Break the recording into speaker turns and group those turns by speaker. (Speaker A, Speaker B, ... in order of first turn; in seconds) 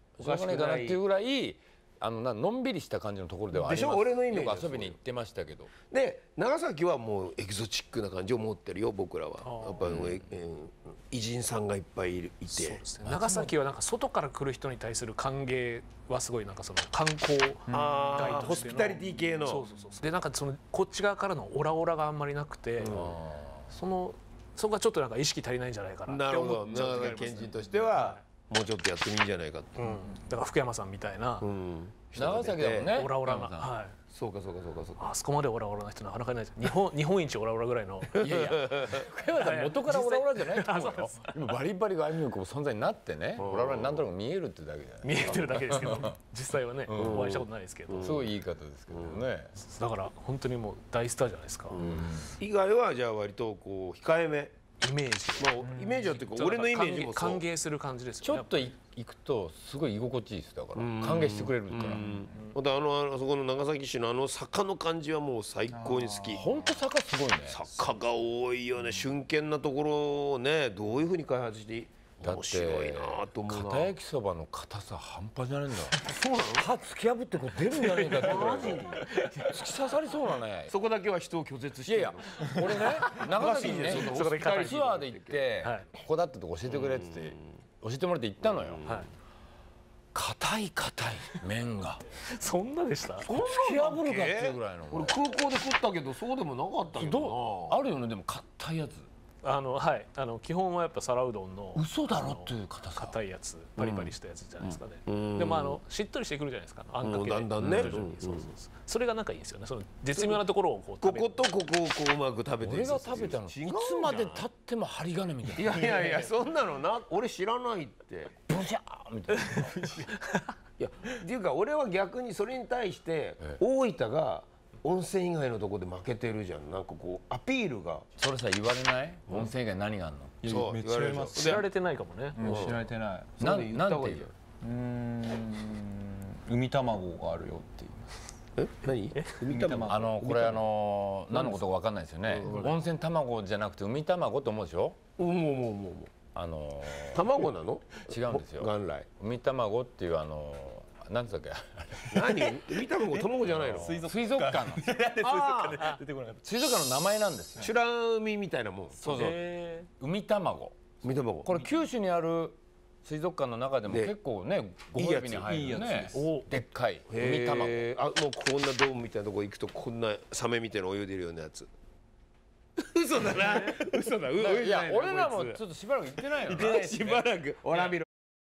Speaker A: 0.1-5.7, 9.8-10.2, 13.0-13.5, 22.8-23.6, 32.1-33.7, 38.1-46.1, 46.9-47.4, 48.0-49.5, 51.8-52.3, 58.2-62.2, 66.3-67.6, 72.2-80.7, 81.8-88.8, 90.1-92.0, 93.2-95.3, 96.9-99.1, 101.7-103.2, 107.6-108.0, 112.6-116.3, 118.5-120.0, 128.2-130.6, 133.4-134.3, 139.8-145.0, 146.3-147.3, 148.1-152.6, 153.4-154.9, 156.4-157.7, 159.0-160.9, 161.4-167.9, 174.3-176.9
Speaker B: 0.2-1.0, 3.5-5.0, 5.8-12.8, 17.7-19.6, 22.8-23.1, 26.1-29.9, 31.4-33.0, 34.1-35.0, 38.1-39.1, 43.4-44.0, 46.9-48.3, 48.9-49.2, 51.7-54.5, 55.4-57.4, 60.8-66.6, 67.5-73.9, 76.0-76.7, 78.0-79.7, 80.7-85.4, 86.7-87.4, 88.5-89.1, 93.3-97.8, 103.8-105.8, 107.0-108.5, 111.0-114.4, 115.5-118.3, 120.8-128.1, 130.4-131.7, 132.4-132.8, 133.4-134.3, 138.6-140.6, 142.3-142.8, 145.2-146.1, 147.1-149.1, 152.1-154.1, 155.2-156.0, 157.6-159.1, 161.0-161.6, 163.9-164.1, 164.9-165.6, 167.1-171.7, 172.8-175.6, 176.2-178.1
Speaker C: 9.4-10.0, 12.5-23.1, 23.7-28.2, 29.8-31.5, 32.6-34.0, 35.0-38.6, 39.3-41.4, 45.0-48.3, 49.6-51.9, 54.8-58.7, 77.7-79.5, 83.6-84.9, 85.6-85.9, 92.2-93.3, 99.4-111.3, 120.2-120.5, 131.2-132.7, 159.1-159.9, 166.1-166.4
Speaker D: 17.7-18.6, 55.7-56.0, 65.7-66.5, 119.7-120.1, 130.4-131.6, 132.3-133.4, 134.6-138.1, 139.5-140.2, 153.1-156.4, 159.1-159.4, 165.4-166.4, 176.6-177.2